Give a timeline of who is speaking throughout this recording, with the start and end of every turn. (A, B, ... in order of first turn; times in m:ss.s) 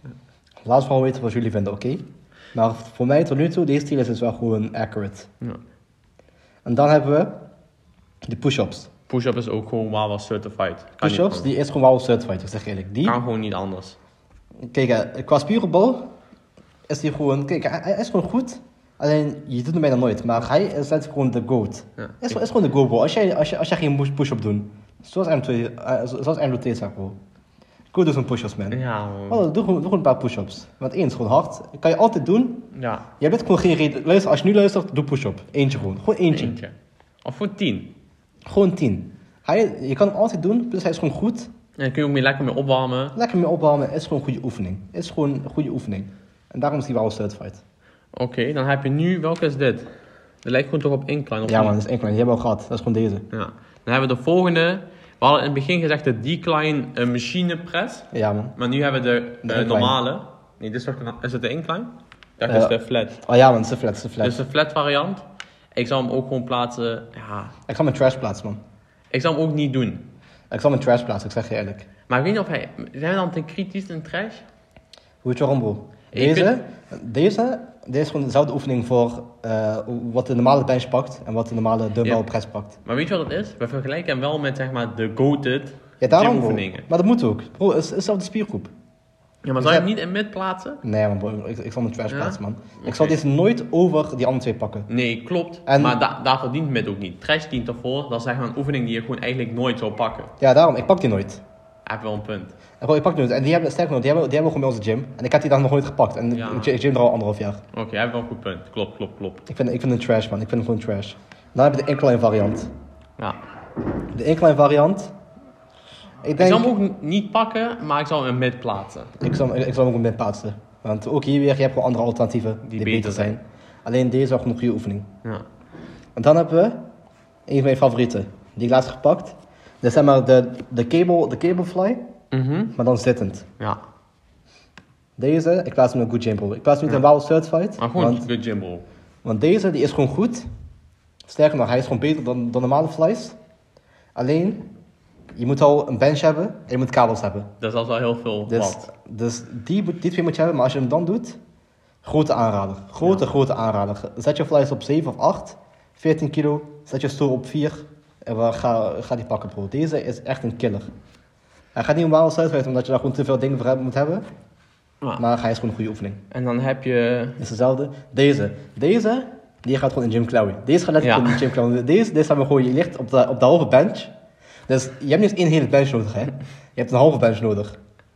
0:00.6-0:05.3 A
0:06.6-0:07.4 A
0:08.2-0:08.9 A
0:09.1-0:11.5 B
0:11.0-0:13.2 A
0:13.0-0:14.0 B
0:14.7-0:16.1 A
0:16.9-0:27.2 A
0:22.0-0:22.4 B
0:27.9-0:36.6 A
0:28.7-0:29.4 B
0:32.7-0:33.0 B
0:36.3-0:37.9 B
0:38.5-0:41.5 A
0:41.8-0:43.2 B
0:43.2-0:47.6 A
0:48.1-0:49.9 B
0:50.4-0:51.7 B
0:51.4-0:53.2 A
0:53.3-1:03.2 B
0:58.1-0:58.5 A
0:59.4-1:00.0 A
1:02.5-1:04.4 A
1:04.2-1:05.2 B
1:05.7-1:07.5 B
1:07.7-1:08.6 A
1:09.1-1:10.0 B
1:10.5-1:11.9 A
1:12.1-1:14.4 B
1:15.2-1:22.8 A
1:16.1-1:16.5 B
1:22.8-1:26.8 B
1:26.0-1:28.7 A
1:29.4-1:30.8 B
1:29.6-1:29.9 A
1:30.8-1:34.9 A
1:32.1-1:33.2 B
1:34.9-1:40.3 B
1:35.6-1:36.0 A
1:40.4-1:41.4 A
1:41.8-1:42.5 B
1:42.8-1:47.6 A
1:46.3-1:46.8 B
1:47.7-1:49.4 B
1:49.5-1:52.7 A
1:54.1-1:55.1 A
1:56.2-1:56.7 A
1:56.4-1:59.1 B
1:59.2-2:05.1 A
2:02.6-2:03.3 B
2:06.2-2:06.8 A
2:07.5-2:12.0 A
2:12.3-2:12.7 B
2:12.7-2:13.5 A
2:15.2-2:18.3 A
2:17.8-2:18.8 B
2:19.2-2:20.4 A
2:21.3-2:23.4 A
2:24.1-2:24.6 A
2:25.3-2:27.5 A
2:27.6-2:28.9 B
2:28.5-2:31.4 A
2:32.0-2:40.8 A
2:41.7-2:44.2 A
2:45.2-2:46.2 A
2:46.3-2:47.4 B
2:47.4-2:54.1 A
2:51.0-2:51.4 B
2:54.7-2:57.8 A